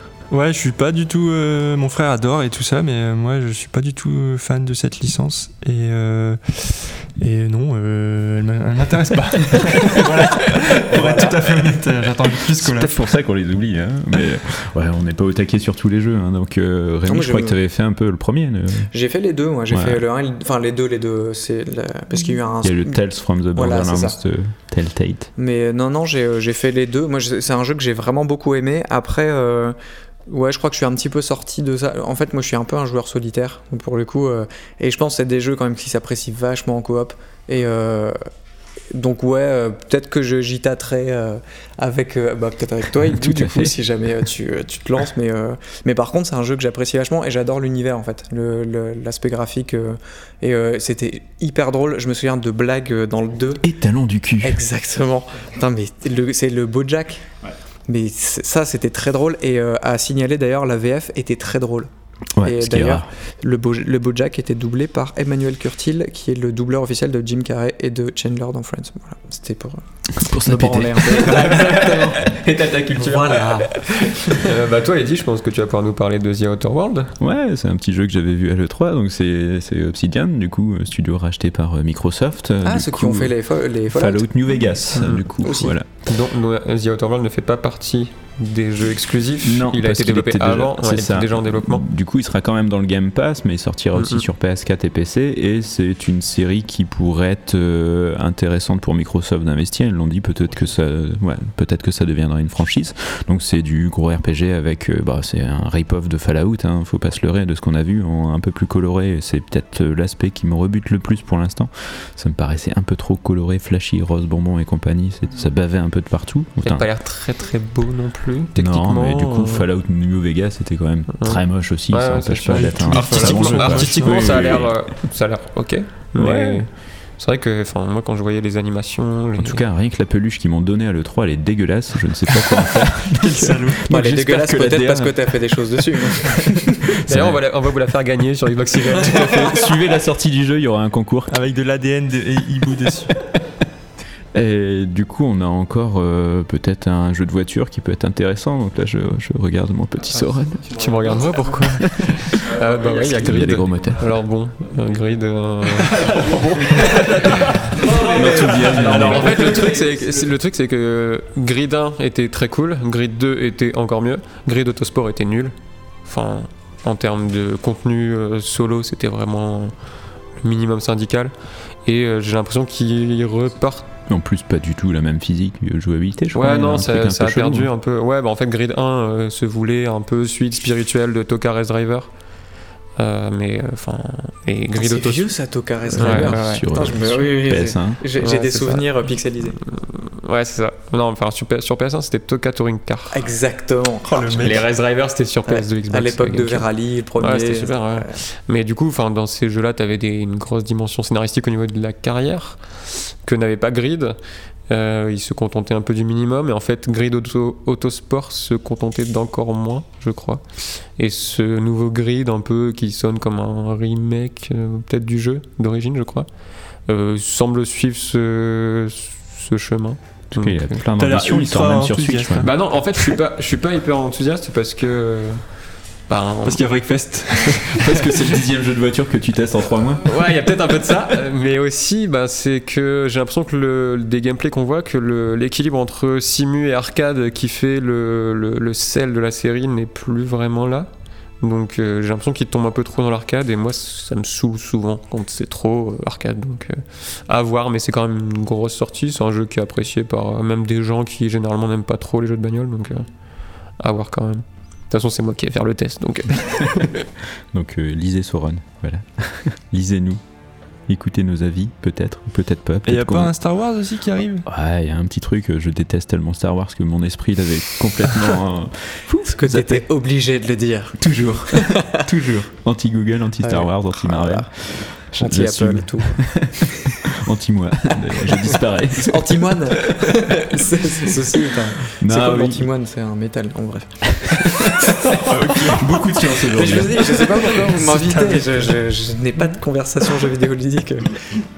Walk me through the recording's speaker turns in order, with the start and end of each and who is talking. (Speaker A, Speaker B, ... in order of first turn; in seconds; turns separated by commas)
Speaker A: 0.3-12.9, Speaker B: 10.9-11.4, Speaker C: 12.6-18.9, Speaker B: 17.1-17.6, Speaker B: 18.9-23.0, Speaker C: 19.7-20.0, Speaker C: 22.6-25.3, Speaker B: 23.5-24.1, Speaker B: 25.4-29.8, Speaker B: 30.3-38.1, Speaker B: 38.9-53.6, Speaker C: 43.1-43.8, Speaker C: 53.6-54.6, Speaker B: 54.4-57.2, Speaker B: 57.9-61.9, Speaker C: 62.4-63.1, Speaker B: 62.4-72.4, Speaker C: 70.1-71.6, Speaker D: 71.1-77.1, Speaker B: 72.9-74.5, Speaker C: 77.2-83.3, Speaker B: 82.6-84.3, Speaker C: 83.9-85.9, Speaker D: 84.9-85.2, Speaker B: 85.4-85.7, Speaker D: 86.0-91.8, Speaker C: 89.4-116.9, Speaker D: 93.9-94.2, Speaker D: 116.6-119.7, Speaker C: 118.5-124.8, Speaker D: 121.1-129.6, Speaker A: 122.5-124.3, Speaker C: 126.1-126.7, Speaker C: 129.4-137.4, Speaker A: 133.2-133.9, Speaker B: 133.8-136.9, Speaker D: 137.0-139.8, Speaker C: 139.1-141.3, Speaker A: 141.3-143.1, Speaker C: 144.3-150.8, Speaker D: 150.7-165.5, Speaker C: 151.8-152.5, Speaker C: 153.1-154.1, Speaker A: 155.9-159.4, Speaker C: 157.8-159.8, Speaker D: 166.0-169.7, Speaker D: 170.4-171.3, Speaker D: 171.8-173.9, Speaker C: 174.1-177.7, Speaker D: 176.3-182.1, Speaker D: 183.0-185.3, Speaker B: 184.8-189.6, Speaker D: 185.9-186.8, Speaker C: 185.9-188.0, Speaker D: 188.2-189.0, Speaker D: 189.6-193.2, Speaker B: 193.1-194.6, Speaker A: 194.1-194.6, Speaker D: 194.3-204.2, Speaker B: 195.4-198.1, Speaker D: 204.7-210.4, Speaker D: 211.0-216.3, Speaker D: 216.9-220.8, Speaker C: 220.3-222.5, Speaker A: 221.0-222.5, Speaker D: 222.4-225.4, Speaker D: 226.1-226.7, Speaker A: 226.4-228.1, Speaker C: 227.8-230.1, Speaker D: 227.8-228.2, Speaker D: 230.0-240.9, Speaker D: 241.4-253.1, Speaker D: 253.8-257.1, Speaker C: 257.5-260.2, Speaker C: 260.9-263.3, Speaker A: 262.9-264.4, Speaker C: 264.4-269.9, Speaker B: 269.2-272.0, Speaker C: 271.0-279.6, Speaker B: 273.4-276.2, Speaker B: 279.0-291.4, Speaker C: 282.0-282.7, Speaker C: 284.1-287.3, Speaker A: 285.1-286.1, Speaker A: 287.1-288.8